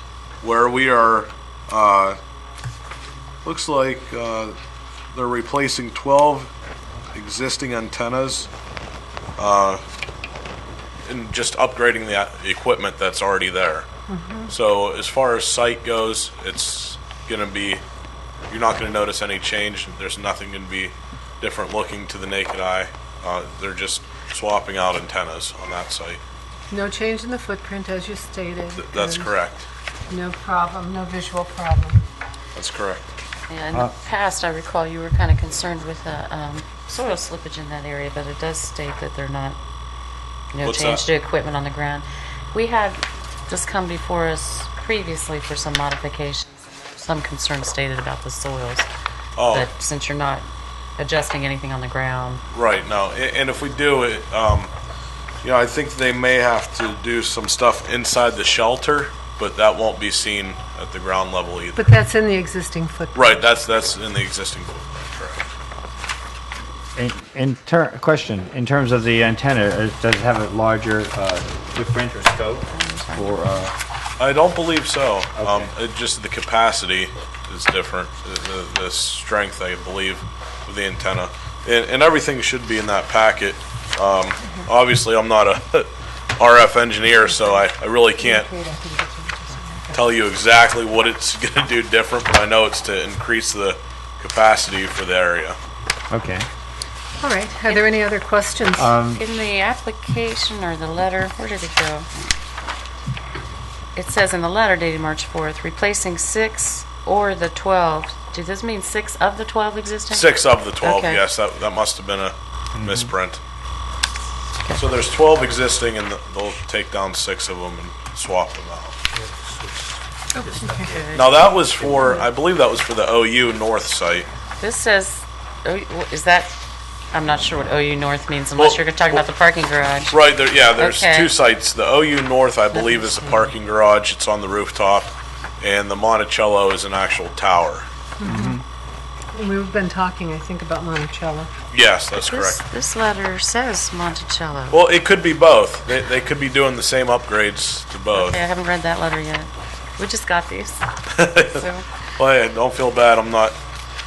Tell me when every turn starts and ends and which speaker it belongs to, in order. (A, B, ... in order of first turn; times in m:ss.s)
0:00.4-0:02.2 A
0:03.4-0:04.6 A
0:05.1-0:06.5 A
0:07.1-0:08.5 A
0:09.4-0:09.8 A
0:11.0-0:13.9 A
0:14.1-0:14.5 B
0:14.5-0:17.8 A
0:18.5-0:26.2 A
0:26.7-0:29.3 B
0:28.8-0:29.7 A
0:30.1-0:32.0 B
0:32.5-0:33.1 A
0:33.5-0:39.6 C
0:40.5-0:48.9 C
0:40.6-0:41.0 A
0:49.4-0:49.7 A
0:49.5-0:50.4 C
0:51.0-0:52.4 C
0:52.5-0:54.7 A
0:55.4-1:01.9 A
1:01.8-1:03.4 B
1:03.1-1:05.4 A
1:07.0-1:13.7 D
1:12.7-1:13.4 C
1:14.2-1:28.5 A
1:15.4-1:15.7 D
1:28.2-1:30.1 B
1:29.9-1:35.6 A
1:36.1-1:36.5 D
1:37.2-1:39.0 B
1:38.8-1:39.2 D
1:39.1-1:42.1 C
1:44.0-1:51.2 C
1:50.1-1:53.4 A
1:52.8-1:53.1 D
1:54.7-1:59.0 A
1:59.2-2:01.0 D
2:00.3-2:01.0 B
2:00.9-2:01.4 C
2:01.1-2:04.3 A
2:01.6-2:02.2 D
2:04.6-2:06.5 C
2:07.1-2:11.3 C
2:08.6-2:09.2 A
2:10.1-2:17.8 A
2:12.7-2:13.5 C
2:18.2-2:18.6 B
2:18.2-2:18.6 D
2:19.3-2:21.5 B
2:21.7-2:22.6 A
2:22.1-2:24.8 C
2:24.7-2:28.4 A
2:28.1-2:30.8 C
2:31.1-2:31.6 A
2:31.4-2:31.8 C
2:32.2-2:33.6 A